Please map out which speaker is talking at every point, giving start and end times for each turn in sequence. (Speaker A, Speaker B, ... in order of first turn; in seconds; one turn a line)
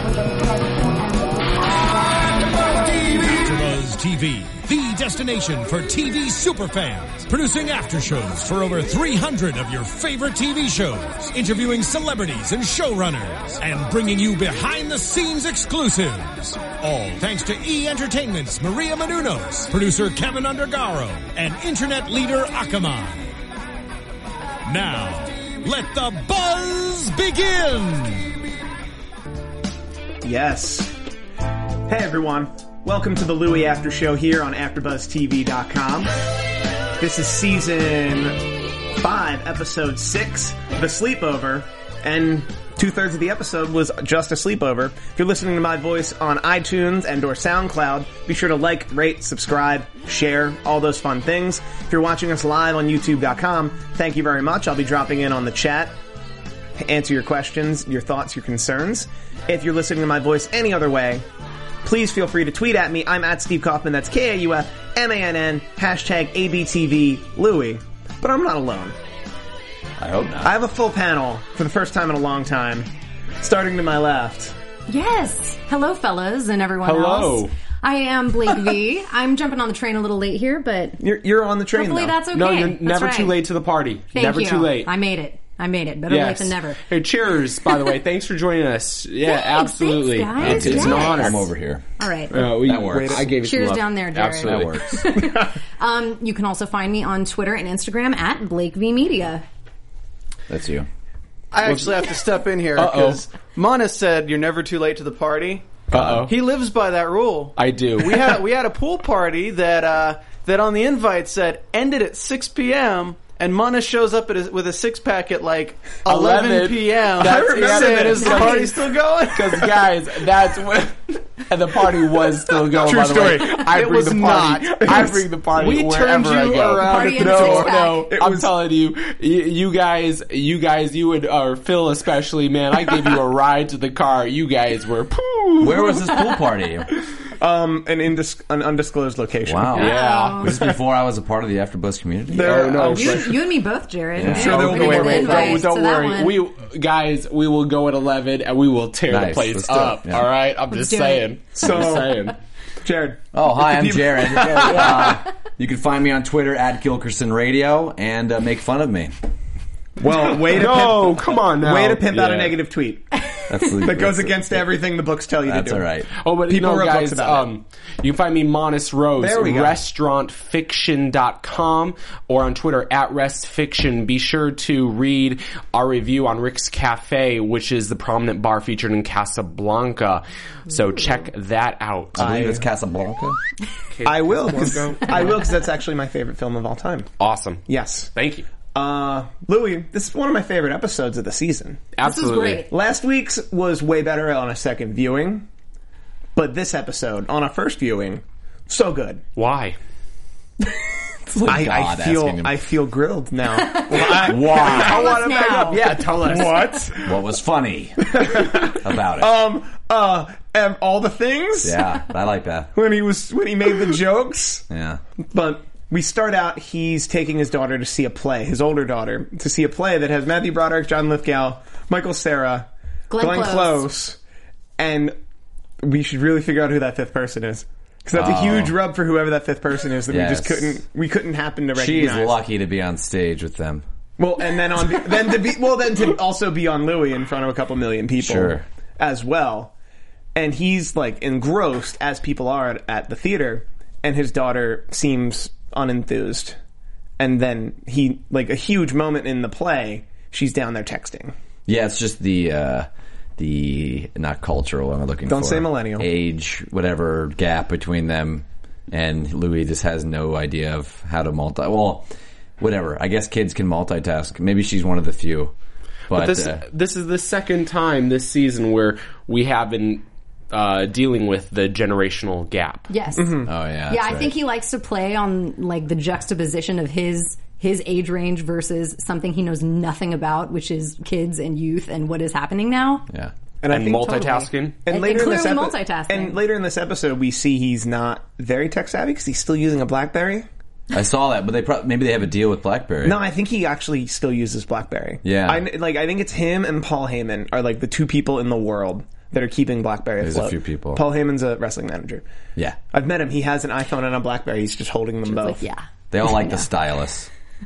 Speaker A: 2.8-23.3
Speaker A: 24.7-28.3
Speaker B: 30.2-31.0
Speaker B: 31.9-36.1
Speaker B: 37.0-55.9
Speaker B: 56.8-61.2
Speaker B: 61.8-69.0
Speaker C: 70.0-70.6
Speaker B: 70.4-72.9
Speaker B: 73.4-74.5
Speaker D: 74.9-81.0
Speaker E: 76.8-77.5
Speaker B: 81.0-82.2
Speaker D: 81.7-83.4
Speaker E: 82.3-84.9
Speaker D: 84.1-86.8
Speaker B: 84.2-84.5
Speaker E: 86.1-91.5
Speaker D: 89.2-91.5
Speaker C: 90.4-93.3
Speaker D: 92.0-92.4
Speaker E: 92.3-94.8
Speaker B: 92.4-93.2
Speaker D: 93.4-99.4
Speaker C: 94.4-95.2
Speaker C: 100.5-100.9
Speaker F: 101.5-119.7
Speaker E: 101.6-102.0
Speaker E: 102.8-103.2
Speaker E: 105.9-106.3
Speaker C: 105.9-106.3
Speaker E: 107.6-108.3
Speaker E: 116.0-118.6
Speaker B: 117.2-118.8
Speaker D: 118.1-118.8
Speaker E: 119.3-136.3
Speaker B: 122.6-128.5
Speaker F: 123.7-124.9
Speaker F: 125.8-127.6
Speaker D: 126.7-128.1
Speaker C: 135.6-136.9
Speaker B: 137.4-139.8
Speaker C: 139.4-142.7
Speaker E: 139.7-140.5
Speaker D: 139.7-140.5
Speaker B: 140.5-140.7
Speaker B: 142.3-143.3
Speaker E: 142.3-143.4
Speaker D: 142.8-146.4
Speaker C: 144.2-145.5
Speaker B: 144.2-145.6
Speaker E: 144.2-152.3
Speaker C: 149.1-150.3
Speaker D: 150.7-151.3
Speaker B: 151.5-152.3
Speaker B: 152.8-155.2
Speaker C: 153.3-159.1
Speaker B: 160.0-163.2
Speaker E: 160.0-162.6
Speaker C: 163.5-164.7
Speaker B: 163.8-165.9
Speaker C: 165.4-166.1
Speaker E: 166.2-182.3
Speaker B: 166.5-167.5
Speaker B: 169.2-169.8
Speaker C: 182.1-183.4
Speaker B: 182.2-182.6
Speaker E: 183.9-185.5
Speaker B: 184.0-187.1
Speaker E: 187.2-188.5
Speaker B: 187.7-188.1
Speaker B: 188.7-191.8
Speaker E: 191.9-192.6
Speaker D: 192.0-192.7
Speaker B: 192.7-195.4
Speaker B: 196.3-199.2
Speaker E: 199.3-199.8
Speaker B: 201.2-207.2
Speaker C: 201.4-202.6
Speaker D: 203.6-206.0
Speaker C: 204.0-205.2
Speaker E: 204.6-204.9
Speaker E: 205.7-206.6
Speaker C: 207.0-209.3
Speaker B: 208.0-212.0
Speaker C: 211.6-212.7
Speaker B: 212.7-214.7
Speaker C: 214.7-215.0
Speaker B: 215.3-224.2
Speaker D: 223.1-223.9
Speaker B: 224.8-225.1
Speaker B: 225.8-232.3
Speaker C: 228.1-228.8
Speaker C: 230.1-230.8
Speaker C: 231.7-233.8
Speaker B: 234.2-239.7
Speaker C: 238.2-238.6
Speaker B: 240.3-246.6
Speaker B: 247.2-251.3
Speaker C: 251.7-262.1
Speaker B: 255.3-256.1
Speaker C: 262.6-265.5
Speaker C: 266.1-266.6
Speaker E: 266.1-272.9
Speaker D: 272.9-283.1
Speaker B: 273.1-273.5
Speaker C: 273.4-274.3
Speaker B: 283.6-290.5
Speaker E: 283.7-284.8
Speaker D: 284.1-286.4
Speaker C: 290.9-293.2
Speaker B: 293.0-302.2
Speaker C: 295.2-295.6
Speaker C: 300.2-301.0
Speaker B: 302.9-305.6
Speaker D: 305.3-306.7
Speaker C: 306.1-307.3